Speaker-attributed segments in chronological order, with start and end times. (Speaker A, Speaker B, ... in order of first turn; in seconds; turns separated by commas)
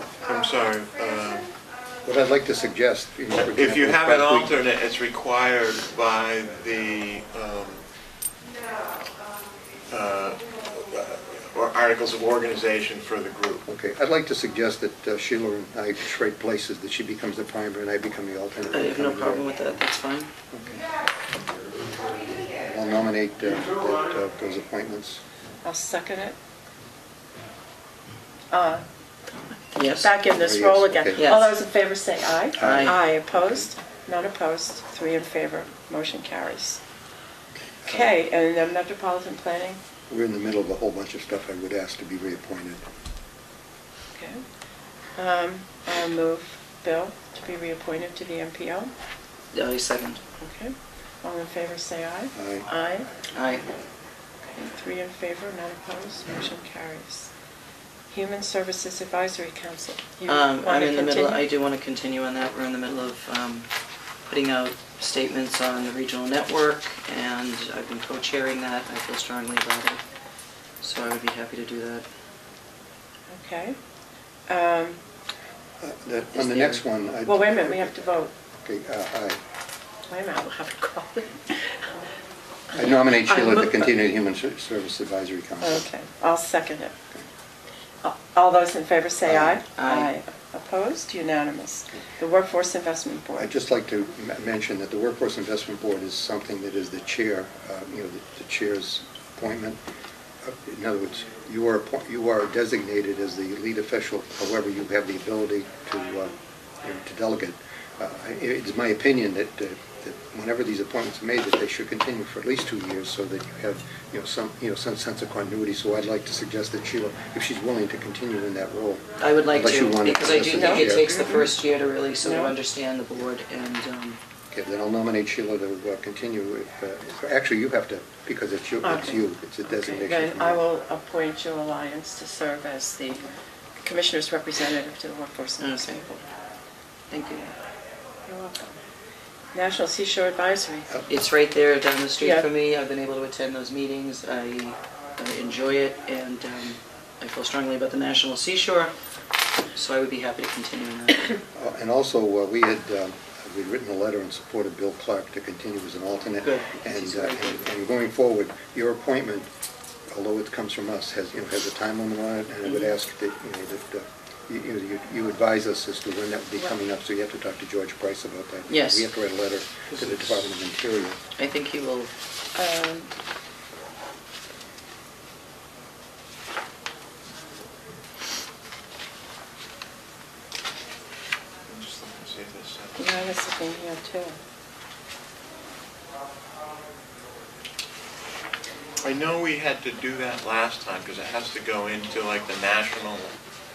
Speaker A: 0.2-1.5, Speaker B: 2.0-4.5, Speaker A: 3.4-7.8, Speaker A: 9.9-13.7, Speaker B: 13.7-19.8, Speaker C: 18.7-20.3, Speaker B: 20.5-20.9, Speaker B: 22.5-25.2, Speaker D: 25.6-26.4, Speaker D: 28.5-28.8, Speaker C: 29.7-30.1, Speaker D: 29.9-36.8, Speaker B: 30.3-31.3, Speaker C: 31.1-31.5, Speaker B: 32.6-33.7, Speaker C: 32.6-33.0, Speaker B: 37.8-38.1, Speaker D: 37.9-39.8, Speaker B: 40.1-42.8, Speaker D: 44.1-44.4, Speaker D: 45.1-48.9, Speaker C: 49.5-50.2, Speaker D: 50.4-53.1, Speaker B: 52.3-52.7, Speaker C: 53.3-53.6, Speaker D: 54.5-57.3, Speaker D: 58.1-61.4, Speaker C: 60.3-63.7, Speaker C: 64.2-70.0, Speaker C: 70.8-72.0, Speaker D: 73.3-73.8, Speaker D: 74.5-75.0, Speaker B: 75.8-78.0, Speaker C: 76.3-76.8, Speaker D: 77.2-78.3, Speaker B: 78.6-79.4, Speaker D: 80.1-82.0, Speaker D: 82.7-83.8, Speaker B: 82.7-85.8, Speaker D: 85.6-86.9, Speaker D: 88.0-93.5, Speaker B: 89.2-89.6, Speaker C: 89.8-90.1, Speaker B: 93.4-99.8, Speaker B: 100.4-121.1, Speaker C: 119.2-124.2, Speaker D: 120.5-121.5, Speaker D: 122.2-122.5, Speaker B: 124.5-130.6, Speaker D: 128.8-133.3, Speaker D: 133.8-136.2, Speaker C: 135.6-136.1, Speaker C: 137.1-137.5, Speaker D: 138.3-138.8, Speaker D: 139.5-140.9, Speaker C: 141.1-148.9, Speaker D: 142.2-142.5, Speaker C: 149.8-151.3, Speaker B: 151.6-159.5, Speaker C: 156.4-157.7, Speaker B: 160.1-171.2, Speaker C: 162.7-162.9, Speaker C: 168.7-169.1, Speaker A: 169.9-170.4, Speaker C: 171.4-172.1, Speaker D: 172.6-173.1, Speaker A: 181.7-183.1, Speaker D: 183.0-184.4, Speaker A: 189.0-193.4